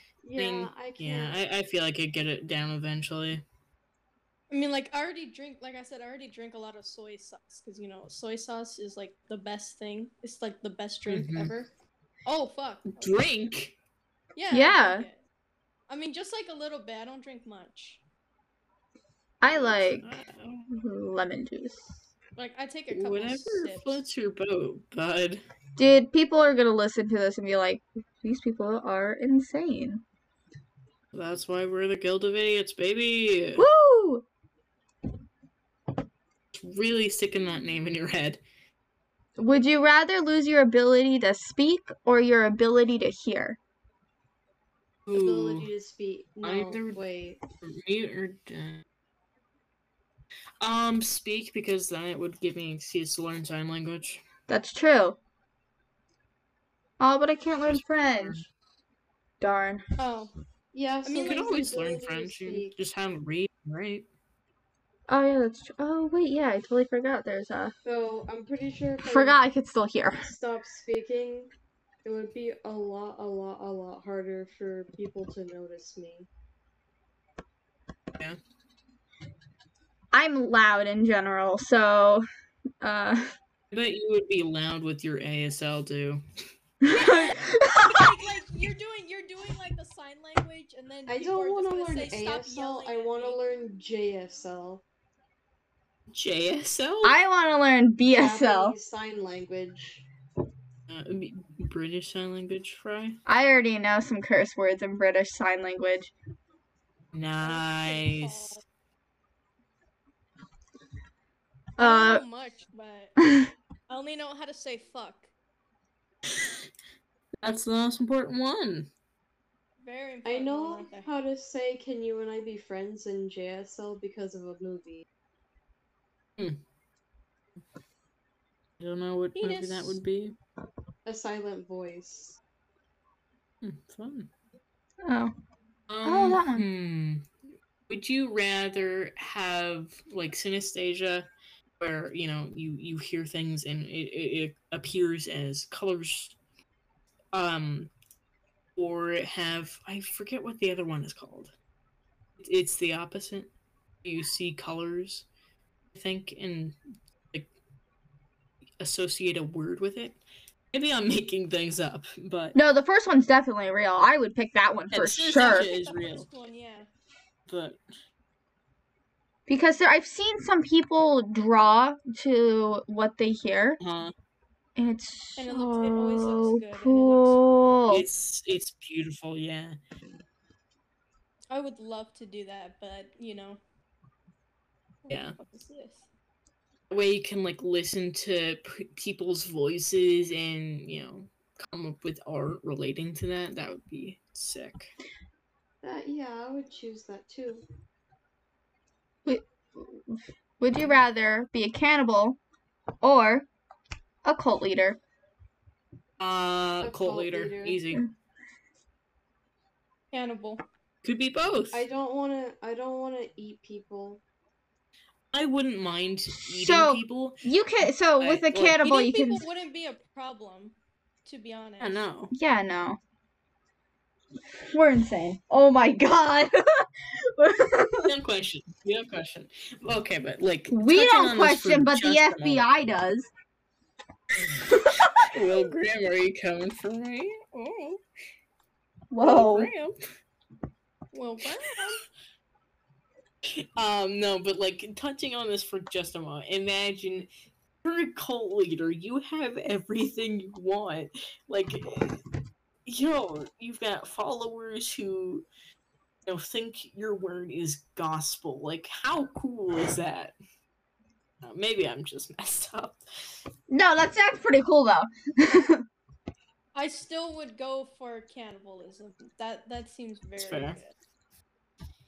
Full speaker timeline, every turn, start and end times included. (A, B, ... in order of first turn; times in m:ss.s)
0:00.2-0:01.4 A
0:00.4-0:03.4 B
0:04.5-0:11.7 C
0:11.1-0:11.5 B
0:12.2-0:13.1 C
0:12.9-0:13.7 B
0:14.3-0:15.2 C
0:14.5-0:15.0 D
0:15.9-0:18.0 C
0:19.4-0:20.1 D
0:19.5-0:20.7 B
0:20.7-0:21.8 D
0:22.4-0:24.0 C
0:22.9-0:25.4 B
0:25.8-0:30.0 D
0:31.1-0:33.7 B
0:33.6-0:34.2 D
0:36.5-0:38.4 B
0:39.4-0:43.6 D
0:45.0-0:45.7 B
0:45.1-0:47.4 A
0:46.4-0:47.0 B
0:47.6-0:48.8 B
0:50.6-0:54.2 B
0:54.5-0:55.2 D
0:57.0-0:58.4 D
0:57.6-0:58.5 B
0:59.4-0:59.8 D
1:00.0-1:00.3 C
1:00.7-1:02.7 A
1:01.0-1:01.5 C
1:01.2-1:04.0 B
1:05.1-1:07.7 D
1:07.8-1:09.4 A
1:09.0-1:10.3 D
1:10.2-1:11.5 A
1:12.0-1:16.3 A
1:20.1-1:22.2 D
1:22.8-1:23.2 D
1:23.7-1:26.2 B
1:26.8-1:28.2 D
1:26.9-1:33.4 C
1:31.1-1:34.8 A
1:36.1-1:37.2 B
1:37.0-1:38.7 D
1:38.1-1:40.0 A
1:40.9-1:43.2 B
1:43.3-1:46.1 D
1:47.1-1:48.6 B
1:47.4-1:48.6 C
1:51.8-1:52.2 D
1:51.8-1:53.2 C
1:53.2-1:53.5 D
1:53.9-1:55.3 C
1:57.4-1:58.9 B
1:59.8-2:01.1 C
2:00.2-2:05.0 A
2:08.8-2:10.3 B
2:09.4-2:10.0 C
2:11.0-2:12.4 A
2:13.6-2:14.3 B
2:15.0-2:15.3 D
2:15.9-2:17.3 B
2:16.0-2:16.6 D
2:17.9-2:26.4 B
2:27.3-2:27.9 B
2:28.8-2:31.5 B
2:32.4-2:33.5 B
2:34.0-2:35.2 B
2:35.9-2:36.8 B
2:38.8-2:40.2 B
2:40.7-2:42.6 B
2:42.5-2:45.7 D
2:44.9-2:46.3 B
2:45.3-2:46.9 C
2:47.5-2:47.8 B
2:49.5-2:53.8 D
2:53.8-2:54.1 B
2:54.8-2:58.0 D
2:55.4-2:57.4 C
2:57.9-2:59.8 B
3:01.5-3:03.6 C
3:05.0-3:06.1 C
3:05.1-3:05.4 B
3:06.9-3:14.9 B
3:15.8-3:17.6 A
3:19.2-3:22.4 D
3:23.0-3:23.4 D
3:24.2-3:25.0 D
3:26.2-3:28.0 B
3:26.8-3:27.8 A
3:30.1-3:30.6 C
3:31.0-3:31.8 B
3:31.7-3:34.2 A
3:35.3-3:37.4 B
3:36.5-3:39.4 D
3:38.2-3:38.8 B
3:38.7-3:40.7 C
3:41.2-3:42.0 C
3:41.8-3:42.3 B
3:42.3-3:43.0 D
3:44.7-3:48.1 D
3:48.0-3:52.7 B
3:50.7-3:53.3 D
3:54.4-3:58.0 B
3:59.1-3:59.7 D
3:59.2-4:00.0 B
4:01.1-4:02.0 C
4:03.7-4:07.3 B
4:07.8-4:12.1 B
4:12.8-4:15.4 B
4:16.2-4:20.3 B
4:21.4-4:23.0 B
4:23.7-4:25.8 D
4:26.7-4:30.9 C
4:30.4-4:30.8 B